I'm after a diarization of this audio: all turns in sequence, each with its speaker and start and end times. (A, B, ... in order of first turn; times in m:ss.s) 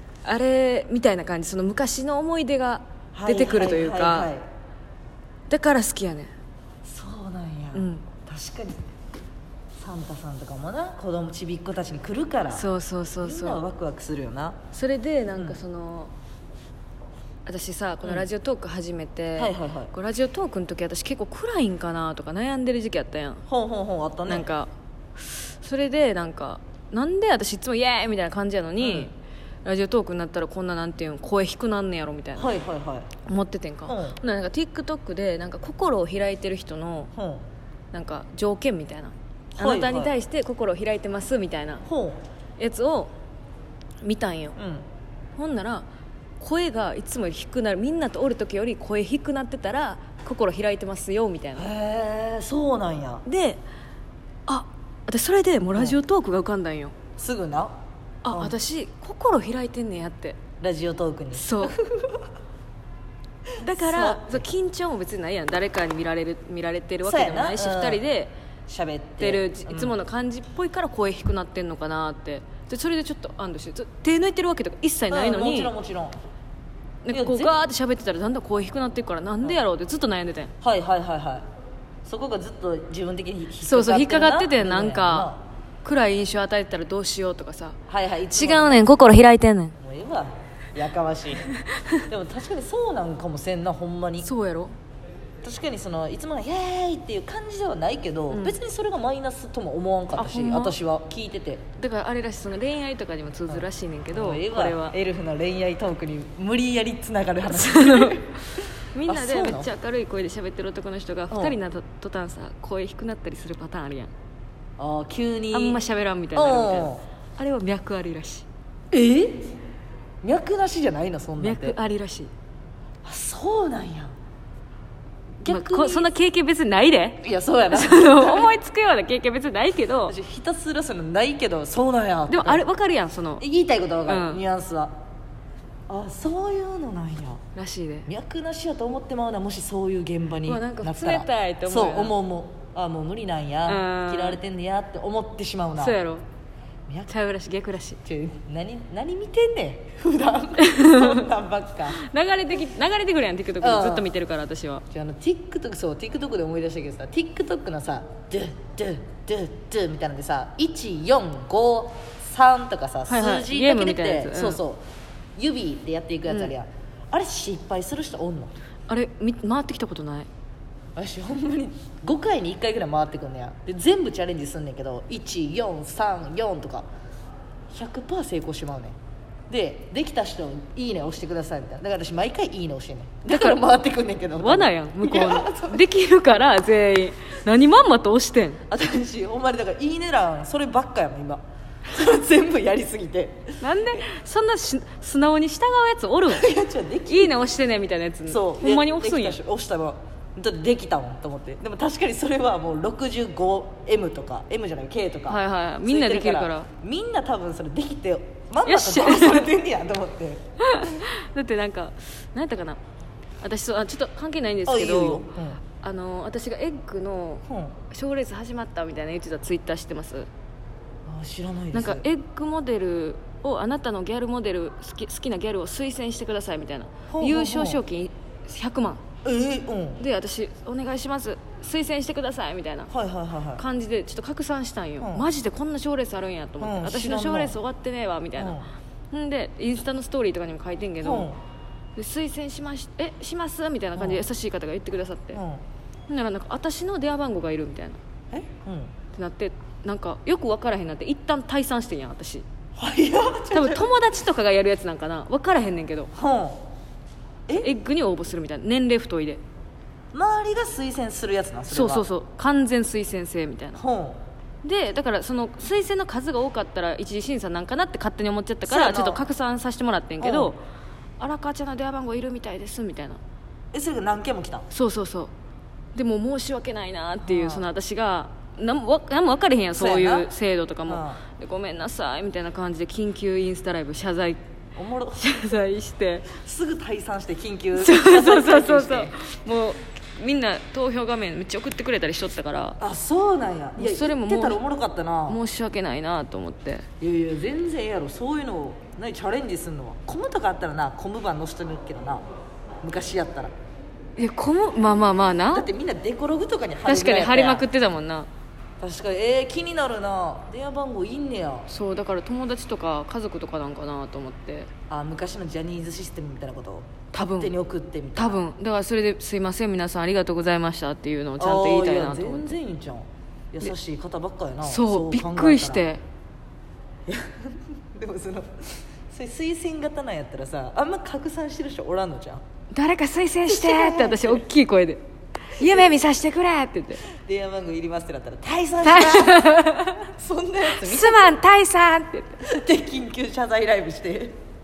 0:00.2-0:04.3 A
0:03.2-0:04.4 B
0:05.5-0:06.3 A
0:06.8-0:08.8 B
0:07.7-0:08.1 A
0:09.8-0:12.7 B
0:12.5-0:13.6 A
0:13.2-0:14.6 B
0:14.7-0:16.1 A
0:15.3-0:15.6 B
0:17.5-0:23.4 A
0:19.4-0:19.9 B
0:23.5-0:24.5 B
0:24.3-0:32.5 A
0:28.8-0:29.1 B
0:32.4-0:33.1 B
0:33.3-0:37.1 A
0:33.8-0:34.2 B
0:37.1-0:37.4 B
0:37.9-0:41.8 A
0:39.6-0:40.2 B
0:41.8-0:42.2 B
0:42.6-0:43.1 A
0:44.0-0:44.6 A
0:44.6-0:44.8 B
0:45.4-0:45.9 A
0:46.4-0:51.7 A
0:51.6-0:53.2 B
0:53.2-0:53.6 A
0:54.5-0:56.9 A
0:57.2-0:57.8 B
0:58.2-1:00.4 A
0:58.3-0:58.6 B
1:00.6-1:02.2 B
1:01.3-1:01.8 A
1:03.6-1:08.3 A
1:03.6-1:04.4 B
1:07.0-1:08.0 B
1:08.7-1:10.0 B
1:09.2-1:15.7 A
1:15.1-1:16.2 B
1:17.0-1:20.5 A
1:17.1-1:17.6 B
1:20.6-1:21.4 B
1:22.0-1:25.4 B
1:23.6-1:25.3 A
1:25.8-1:27.8 A
1:27.9-1:28.9 B
1:28.3-1:29.8 A
1:29.8-1:31.5 B
1:32.1-1:34.3 B
1:34.2-1:34.7 A
1:35.4-1:41.6 B
1:38.3-1:38.6 A
1:40.2-1:40.8 A
1:41.8-1:45.0 A
1:43.5-1:48.4 B
1:47.5-1:48.3 A
1:48.9-1:54.1 A
1:49.0-1:49.7 B
1:51.3-1:51.6 B
1:54.8-1:55.8 B
1:55.5-1:58.5 A
1:56.4-1:57.0 B
1:58.9-1:59.6 B
2:00.2-2:01.8 B
2:01.4-2:02.3 A
2:03.0-2:04.1 B
2:05.4-2:10.2 A
2:05.4-2:06.1 B
2:07.2-2:08.5 B
2:10.1-2:12.6 B
2:12.3-2:13.4 A
2:13.4-2:14.9 B
2:14.1-2:14.4 A
2:15.9-2:17.4 B
2:17.6-2:18.1 A
2:18.1-2:26.0 B
2:20.5-2:22.1 A
2:23.7-2:24.4 A
2:25.8-2:26.2 A
2:27.1-2:28.0 A
2:28.0-2:32.0 B
2:30.6-2:31.2 A
2:32.0-2:34.8 A
2:33.6-2:34.1 B
2:34.9-2:44.8 B
2:43.1-2:44.6 A
2:45.4-2:48.5 B
2:46.3-2:46.5 A
2:48.9-2:50.3 A
2:51.0-2:56.9 B
2:57.7-2:59.0 B
2:59.5-3:05.9 B
3:03.3-3:03.6 A
3:04.4-3:08.6 A
3:08.7-3:14.0 B
3:13.6-3:16.5 A
3:16.3-3:17.4 B
3:17.1-3:19.4 A
3:18.3-3:30.4 B
3:25.3-3:26.7 A
3:28.7-3:29.5 A
3:30.6-3:32.8 A
3:33.4-3:35.3 A
3:34.7-3:35.6 B
3:35.8-3:40.3 A
3:37.5-3:37.8 B
3:41.1-3:42.1 B
3:41.7-3:49.0 A
3:47.1-3:47.8 B
3:49.2-3:50.0 B
3:50.0-3:52.9 A
3:52.9-3:53.6 B
3:53.6-3:58.6 A
3:55.0-3:55.3 B
3:56.6-3:57.6 B
3:58.4-3:58.7 B
3:59.1-4:01.3 A
4:01.0-4:01.4 B
4:02.0-4:05.4 A
4:04.0-4:04.3 B
4:05.3-4:05.6 B
4:06.1-4:08.0 A
4:08.3-4:08.9 B
4:09.1-4:12.4 A
4:12.8-4:13.9 B
4:13.5-4:16.1 A
4:16.1-4:16.6 B
4:17.6-4:19.4 A
4:20.1-4:22.0 B
4:21.7-4:23.8 A
4:23.8-4:24.2 B
4:24.6-4:30.6 A
4:28.7-4:29.3 B
4:30.2-4:30.6 B
4:31.2-4:33.2 A
4:33.7-4:34.7 B
4:34.7-4:35.3 A
4:36.0-4:44.4 A
4:37.2-4:37.7 B
4:39.8-4:40.3 B
4:40.9-4:41.2 B
4:44.8-4:45.3 B
4:45.2-4:46.3 A
4:46.3-4:49.2 B
4:47.8-4:52.8 A
4:52.8-4:55.4 B
4:53.8-4:54.6 A
4:55.3-4:56.8 A
4:57.0-5:02.2 B
5:02.8-5:03.5 B
5:04.2-5:05.7 A
5:05.5-5:07.7 B
5:06.8-5:08.3 A
5:08.8-5:11.7 B
5:11.7-5:14.7 A
5:14.9-5:18.4 B
5:17.1-5:17.5 A
5:18.2-5:22.6 A
5:21.4-5:25.8 B
5:24.6-5:26.0 A
5:27.1-5:32.4 B
5:32.7-5:37.0 A
5:33.5-5:34.4 B
5:37.2-5:41.4 B
5:38.8-5:40.0 A
5:40.6-5:42.4 A
5:42.4-5:44.4 B